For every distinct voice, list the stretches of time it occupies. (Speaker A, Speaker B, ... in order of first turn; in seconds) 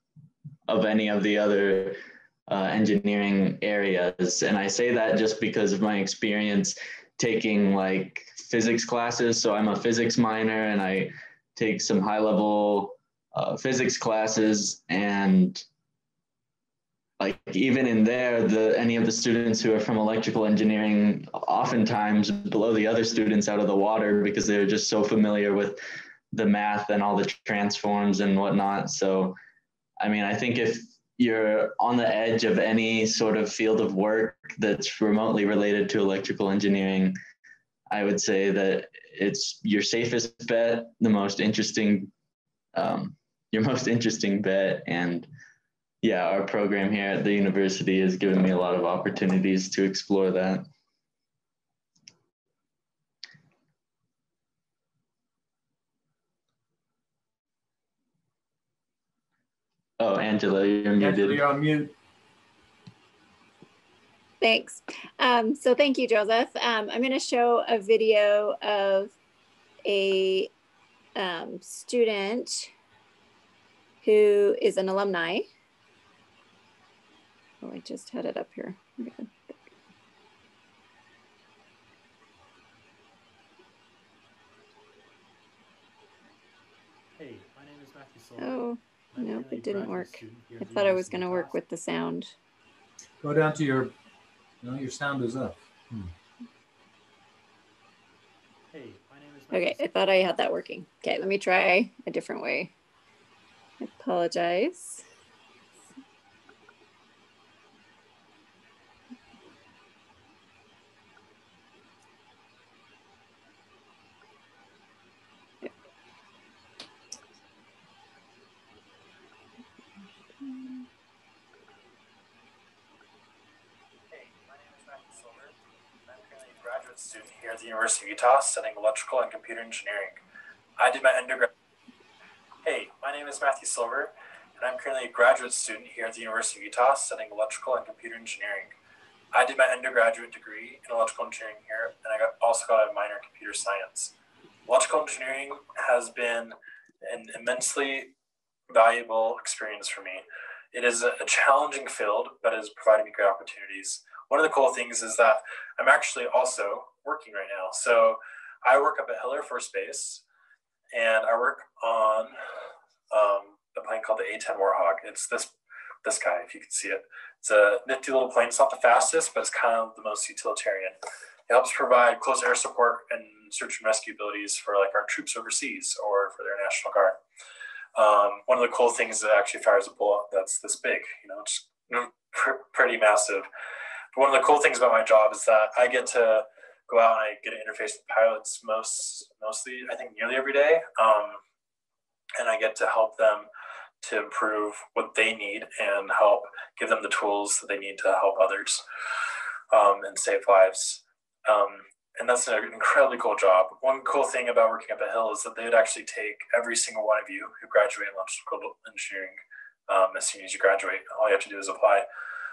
Speaker A: 0.7-15.7, 17.2-25.8, 26.3-29.4, 30.0-37.2, 37.9-42.1, 42.8-45.3, 46.0-50.6, 60.0-61.4
Speaker B: 61.0-61.9, 93.2-93.9, 94.6-96.1
Speaker C: 64.4-69.2, 69.8-70.5, 71.2-72.7, 74.0-75.5, 77.6-79.3, 88.4-92.3, 99.5-102.7, 103.8-105.0
Speaker D: 87.4-87.8, 99.2-99.5, 124.1-130.2, 130.8-131.5, 132.6-138.8, 139.3-144.2, 144.7-148.1, 148.7-160.2, 160.9-162.3, 163.1-171.0, 171.5-177.2, 177.9-183.5, 184.1-191.4, 192.4-193.5, 194.0-198.8, 199.7-212.1